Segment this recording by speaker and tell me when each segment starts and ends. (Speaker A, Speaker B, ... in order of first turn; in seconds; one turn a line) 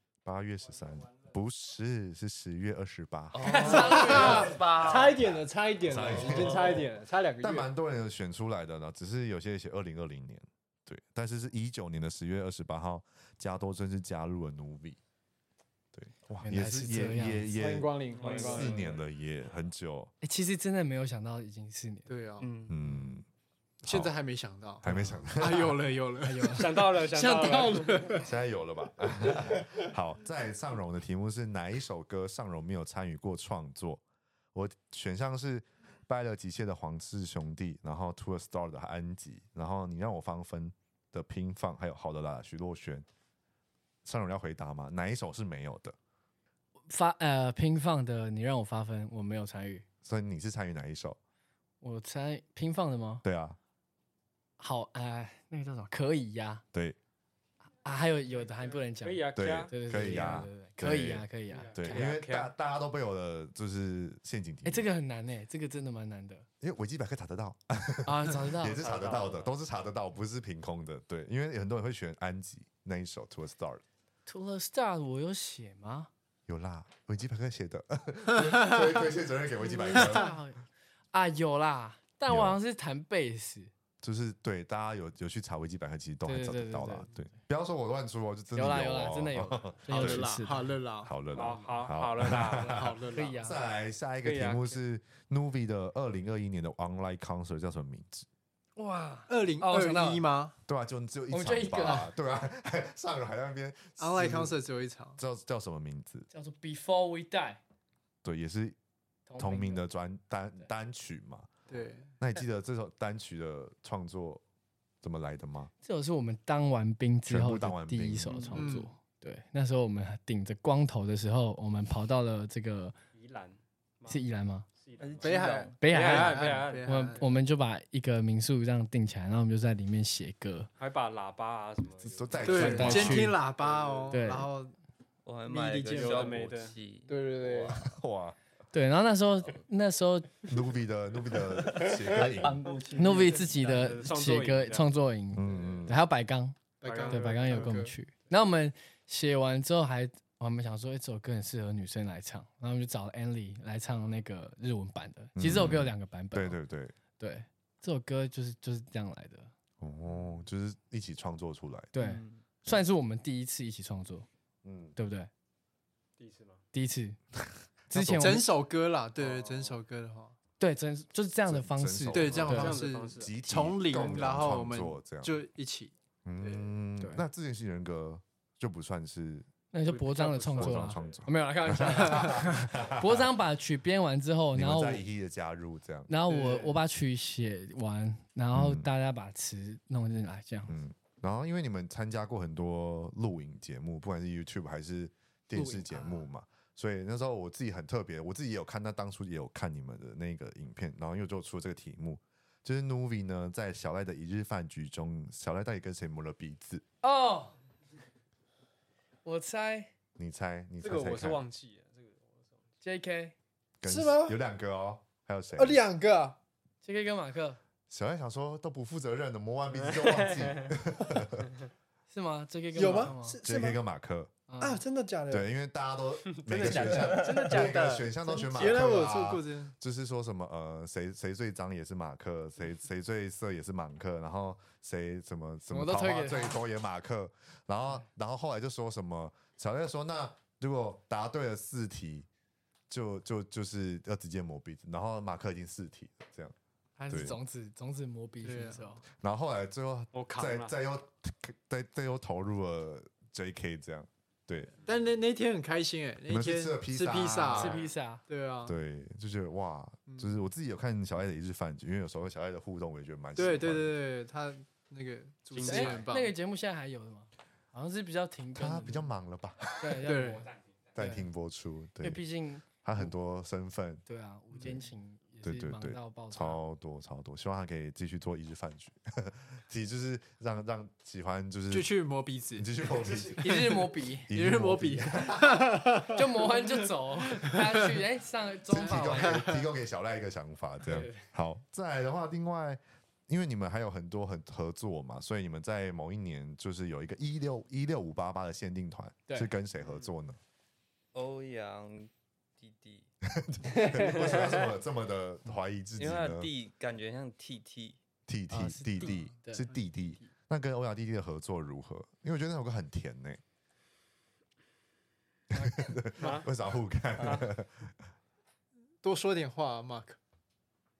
Speaker A: 0.2-4.4
Speaker B: 3.3-5.4
Speaker C: 3.4-4.5
Speaker D: 3.6-7.7
Speaker A: 5.8-6.8
Speaker B: 6.0-6.8
Speaker A: 7.4-15.0
Speaker A: 15.9-20.1
Speaker C: 16.4-17.5
Speaker D: 17.5-18.9
Speaker E: 18.1-19.0
Speaker C: 20.2-22.1
Speaker D: 22.1-22.5
Speaker E: 22.4-22.7
Speaker A: 22.7-23.2
Speaker D: 23.8-28.3
Speaker A: 23.8-24.1
Speaker A: 24.8-25.8
Speaker C: 26.2-26.7
Speaker E: 26.6-28.1
Speaker A: 28.2-34.0
Speaker A: 34.5-43.0
Speaker A: 44.0-46.0
Speaker C: 46.9-49.8
Speaker A: 50.0-51.2
Speaker C: 51.8-53.2
Speaker A: 53.2-53.6
Speaker C: 54.6-56.6
Speaker C: 57.8-62.1
Speaker E: 59.0-60.3
Speaker A: 59.4-64.8
Speaker E: 61.6-62.5
Speaker C: 64.6-66.5
Speaker A: 66.6-73.8
Speaker C: 68.0-68.8
Speaker E: 68.8-69.5
Speaker C: 74.2-76.1
Speaker A: 76.5-80.3
Speaker C: 79.6-83.7
Speaker D: 80.0-80.3
Speaker A: 82.3-82.6
Speaker A: 84.0-90.5
Speaker C: 86.2-87.2
Speaker C: 88.5-90.6
Speaker D: 89.9-91.1
Speaker A: 91.0-98.3
Speaker E: 91.3-92.9
Speaker D: 92.6-93.5
Speaker C: 93.1-93.6
Speaker E: 94.2-94.8
Speaker C: 98.8-100.3
Speaker D: 99.3-100.5
Speaker A: 100.7-104.6
Speaker C: 101.3-102.1
Speaker D: 104.0-105.2
Speaker A: 105.2-106.3
Speaker C: 106.3-107.6
Speaker A: 108.2-108.8
Speaker C: 109.3-109.8
Speaker A: 109.4-111.5
Speaker D: 111.7-112.1
Speaker A: 112.2-114.4
Speaker A: 115.0-115.7
Speaker C: 115.8-122.9
Speaker A: 117.2-118.6
Speaker B: 118.3-118.6
Speaker D: 118.5-118.9
Speaker E: 123.1-124.2
Speaker C: 124.1-124.7
Speaker E: 124.8-127.2
Speaker B: 125.0-125.8
Speaker D: 125.2-127.3
Speaker C: 125.8-130.7
Speaker E: 130.8-134.2
Speaker A: 132.0-133.4
Speaker D: 132.4-134.7
Speaker C: 132.5-133.4
Speaker C: 134.1-134.5
Speaker B: 135.2-137.8
Speaker D: 135.4-136.5
Speaker E: 135.9-136.7
Speaker D: 137.1-137.8
Speaker A: 137.7-138.3
Speaker C: 138.7-140.5
Speaker A: 140.5-142.6
Speaker B: 141.8-143.5
Speaker D: 142.8-143.3
Speaker C: 142.9-156.6
Speaker E: 143.6-144.9
Speaker A: 145.3-146.0
Speaker D: 146.8-147.9
Speaker E: 146.8-147.8
Speaker A: 155.3-156.9
Speaker C: 157.2-159.5
Speaker A: 159.8-161.9
Speaker C: 161.9-164.3
Speaker B: 162.0-162.4
Speaker A: 164.6-164.9
Speaker C: 164.9-165.3
Speaker E: 166.2-166.6
Speaker C: 166.7-167.2
Speaker A: 167.9-168.5
Speaker C: 167.9-168.4
Speaker D: 168.2-170.3
Speaker E: 169.2-169.7
Speaker C: 170.6-172.8
Speaker A: 171.4-175.4
Speaker D: 172.1-176.7
Speaker E: 172.2-173.3
Speaker A: 176.2-179.5
Speaker C: 179.7-185.0
Speaker E: 179.8-181.2
Speaker A: 180.5-183.3
Speaker A: 184.5-186.1
Speaker C: 186.1-190.7
Speaker D: 186.3-186.8
Speaker A: 188.5-188.9
Speaker A: 190.7-206.8
Speaker C: 195.5-195.9
Speaker C: 207.0-207.6
Speaker C: 209.2-209.9
Speaker A: 210.2-211.4
Speaker E: 210.8-212.6
Speaker C: 212.8-213.3
Speaker A: 213.8-215.8
Speaker D: 213.8-214.4
Speaker D: 215.6-216.4
Speaker C: 216.8-217.6
Speaker A: 217.9-221.5
Speaker E: 219.8-220.7
Speaker C: 222.1-223.4
Speaker D: 222.7-223.8
Speaker A: 223.4-224.3
Speaker C: 224.5-224.8
Speaker D: 224.6-225.4
Speaker A: 225.3-242.3
Speaker D: 226.5-229.7
Speaker E: 226.5-227.1
Speaker C: 227.2-227.8
Speaker C: 235.7-236.6
Speaker A: 242.9-246.5
Speaker C: 247.0-249.0
Speaker A: 247.1-247.4
Speaker D: 248.4-248.9
Speaker A: 249.2-254.7
Speaker E: 250.1-250.7
Speaker D: 254.8-258.7
Speaker A: 256.3-257.8
Speaker C: 257.5-258.2
Speaker A: 258.6-264.0
Speaker D: 260.1-260.3
Speaker D: 263.4-266.3
Speaker E: 265.5-266.0
Speaker C: 265.6-269.1
Speaker A: 268.5-270.0
Speaker C: 269.8-270.5
Speaker D: 270.0-271.2
Speaker A: 270.9-272.2
Speaker C: 272.0-272.6
Speaker A: 272.8-274.0
Speaker C: 274.1-276.6
Speaker D: 274.5-274.8
Speaker A: 275.4-281.9
Speaker D: 281.7-283.8
Speaker A: 282.5-285.7
Speaker C: 283.4-284.3
Speaker D: 284.3-286.7
Speaker C: 286.1-289.4
Speaker D: 287.3-288.0
Speaker A: 288.7-300.4
Speaker D: 288.7-289.7
Speaker C: 290.9-291.2
Speaker B: 301.1-303.1
Speaker A: 303.3-306.5
Speaker B: 306.0-308.0
Speaker A: 308.3-313.4
Speaker C: 308.5-309.6
Speaker D: 309.0-310.3
Speaker A: 315.5-317.9
Speaker E: 316.2-316.5
Speaker E: 317.2-317.5
Speaker D: 319.0-320.2